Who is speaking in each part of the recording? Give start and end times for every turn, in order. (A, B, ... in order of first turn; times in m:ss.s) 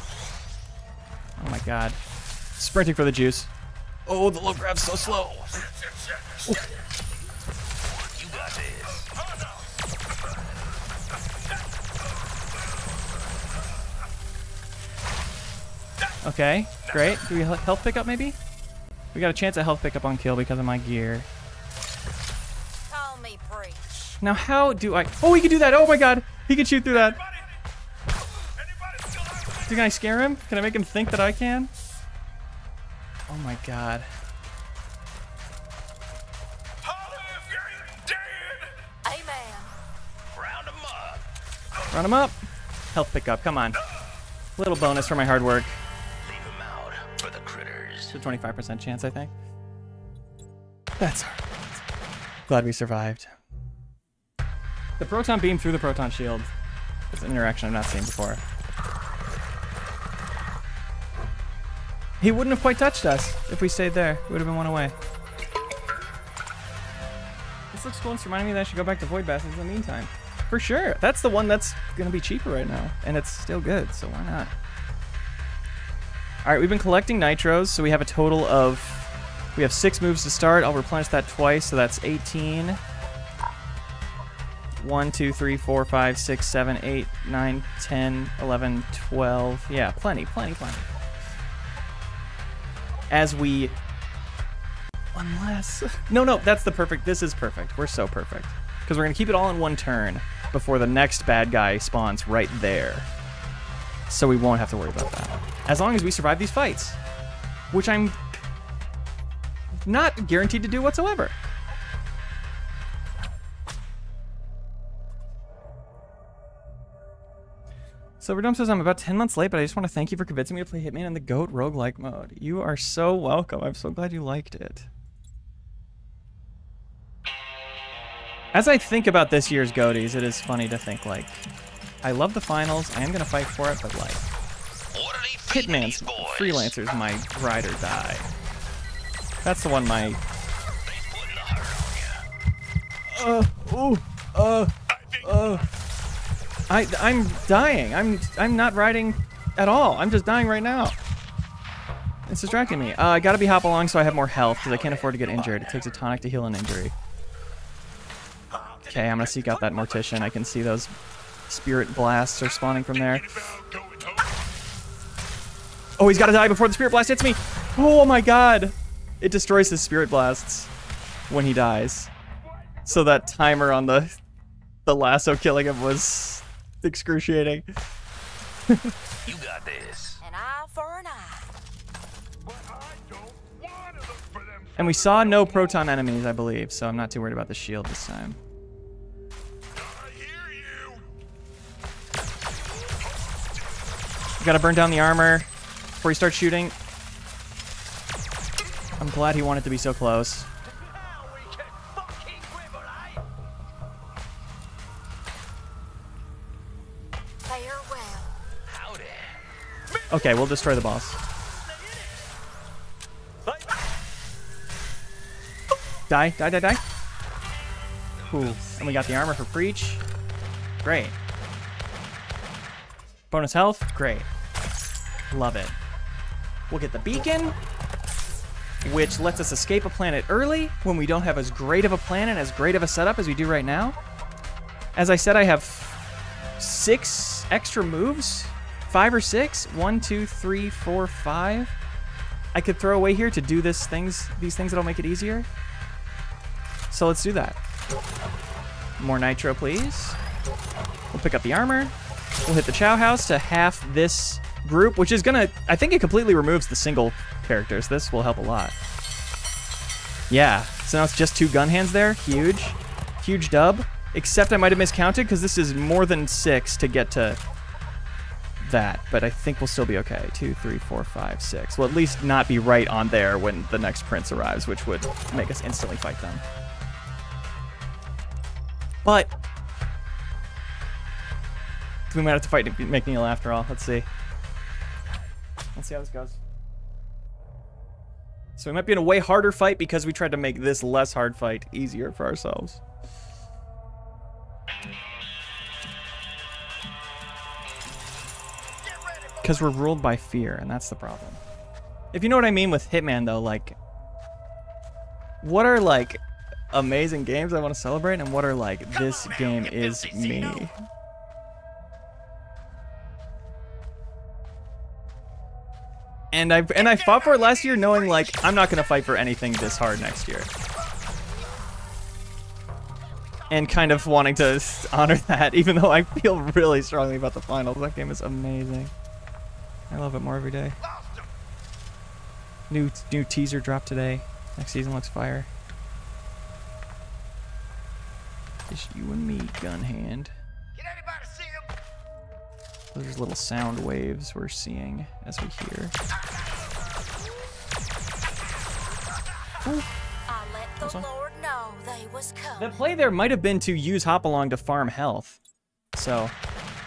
0:01.4-0:02.0 A
0:02.6-0:03.5 A
0:04.1-0:05.6 A
0:08.0-0:09.1 B
0:16.2-0:18.4 A
0:19.1-0:21.3 A
0:22.9-0:23.9 C
0:24.2-0:27.2 A
0:29.6-0:31.7 A
0:33.3-0:34.1 A
0:37.4-0:38.0 D
0:39.0-0:39.7 C
0:40.3-0:41.3 B
0:41.9-0:42.4 A
0:42.9-0:43.8 A
0:44.6-0:45.8 A
0:46.2-0:48.2 B
0:48.1-0:49.3 A
0:51.0-0:51.4 A
0:52.5-0:53.3 A
0:55.0-0:56.5 A
0:57.1-0:58.4 A
1:02.2-1:05.0 A
1:07.7-1:14.5 A
1:16.4-1:22.8 A
1:24.8-1:30.9 A
1:33.1-1:33.8 A
1:35.1-1:43.1 A
1:44.1-1:47.0 A
1:47.7-1:48.4 A
1:49.8-1:51.4 A
1:58.2-2:04.9 A
2:08.5-2:11.5 A
2:12.0-2:14.3 A
2:14.9-2:16.8 B
2:15.5-2:18.3 A
2:19.4-2:20.2 A
2:20.8-2:22.3 B
2:23.1-2:25.7 A
2:26.7-2:31.0 A
2:32.3-2:36.9 A
2:34.8-2:35.1 B
2:38.8-2:40.9 A
2:41.5-2:43.6 A
2:43.7-2:44.2 D
2:46.0-2:50.7 A
2:51.3-2:52.1 A
2:52.8-2:54.2 A
2:54.9-2:57.7 A
2:58.7-2:58.9 A
2:59.2-3:00.2 B
3:00.2-3:01.5 C
3:02.7-3:04.7 D
3:04.8-3:08.4 A
3:09.9-3:11.0 D
3:14.4-3:15.5 A
3:16.0-3:16.8 A
3:19.0-3:20.5 A
3:20.8-3:23.2 D
3:27.5-3:28.3 C
3:28.7-3:29.4 B
3:30.1-3:31.2 A
3:36.1-3:36.8 A
3:38.2-3:39.2 B
3:38.3-3:40.0 A
3:40.8-3:41.2 A
3:43.3-3:44.3 A
3:45.3-3:45.8 A
3:46.7-3:47.6 A
3:48.8-3:54.0 A
3:55.0-3:56.0 A
3:56.6-4:01.8 A
4:02.5-4:05.5 A
4:06.9-4:07.6 A
4:09.0-4:10.2 A
4:11.1-4:11.9 A
4:12.5-4:18.8 A
4:20.3-4:27.4 A
4:28.6-4:36.4 A
4:39.0-4:39.3 A
4:42.1-4:44.1 A
4:45.8-4:46.4 A
4:48.6-4:52.8 A
4:59.4-5:01.4 A
5:02.1-5:03.8 A
5:05.4-5:06.2 A
5:06.7-5:10.8 A
5:16.3-5:20.5 A
5:23.5-5:28.9 A
5:29.9-5:30.8 A
5:32.7-5:35.5 A
5:38.7-5:40.3 A
5:42.9-5:46.0 A
5:50.3-5:52.8 C
5:50.8-5:51.1 A
5:52.6-5:55.4 A
5:56.0-5:56.4 A